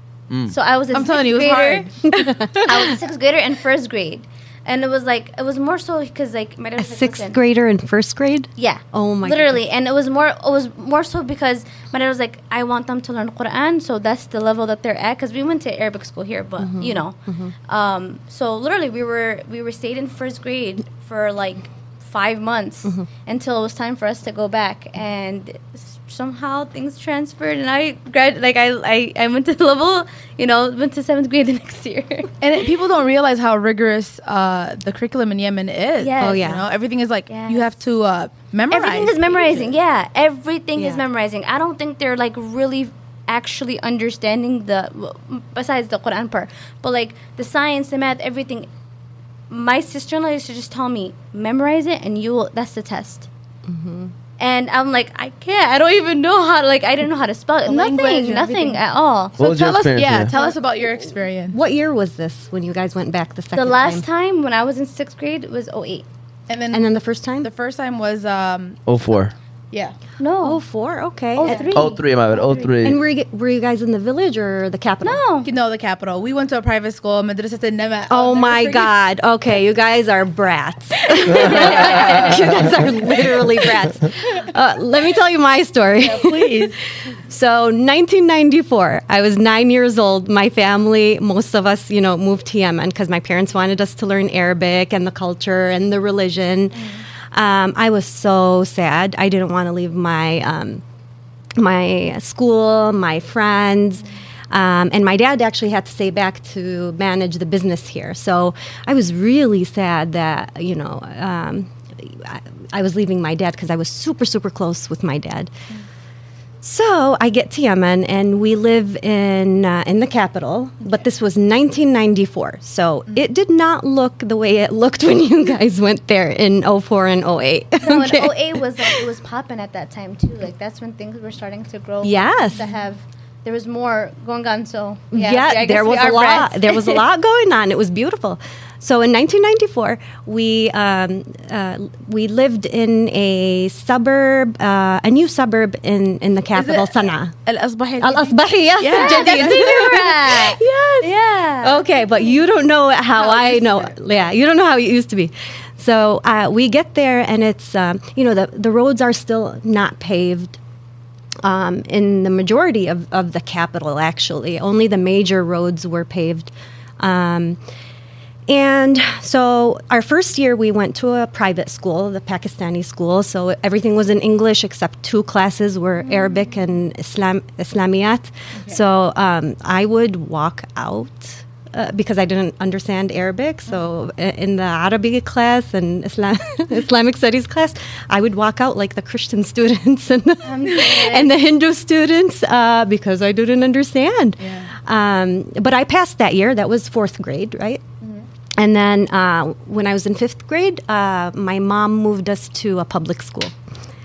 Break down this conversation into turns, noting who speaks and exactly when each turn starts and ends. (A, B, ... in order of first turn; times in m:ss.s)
0:00.3-0:00.6 A
0:00.5-0:01.9 B
0:00.9-0:03.0 C
0:02.1-0:02.7 D
0:02.5-0:07.4 B
0:06.8-0:09.6 D
0:08.6-0:17.2 B
0:16.6-0:17.5 D
0:17.7-0:32.3 B
0:32.4-0:39.7 C
0:36.0-0:36.6 B
0:36.2-0:36.6 D
0:37.3-0:37.7 B
0:38.7-0:48.7 B
0:40.8-0:41.0 D
0:49.5-0:53.3 B
0:53.7-0:54.1 D
0:54.4-0:59.4 B
0:57.7-0:58.8 C
0:59.4-1:00.3 A
0:59.4-1:01.6 C
1:01.5-1:04.0 D
1:03.5-1:06.1 B
1:06.5-1:06.9 C
1:06.7-1:07.5 D
1:07.4-1:08.8 C
1:08.9-1:09.3 A
1:10.2-1:10.6 B
1:10.4-1:11.8 D
1:11.4-1:12.7 B
1:11.4-1:11.7 C
1:11.7-1:13.0 A
1:12.8-1:15.2 D
1:15.0-1:15.5 B
1:15.4-1:18.9 C
1:18.1-1:26.7 D
1:21.2-1:22.5 C
1:26.0-1:26.8 C
1:27.3-1:40.8 D
1:41.6-1:55.5 D
1:56.6-2:09.0 D
2:07.8-2:17.0 B
2:12.0-2:12.7 D
2:15.1-2:27.4 D
2:26.6-2:30.3 C
2:28.0-2:40.6 D
2:28.8-2:31.9 B
2:33.2-2:33.9 C
2:41.4-2:47.6 D
2:48.5-3:17.8 D
2:56.1-2:56.5 B
3:10.4-3:11.3 B
3:14.4-3:14.7 C
3:18.6-3:23.6 D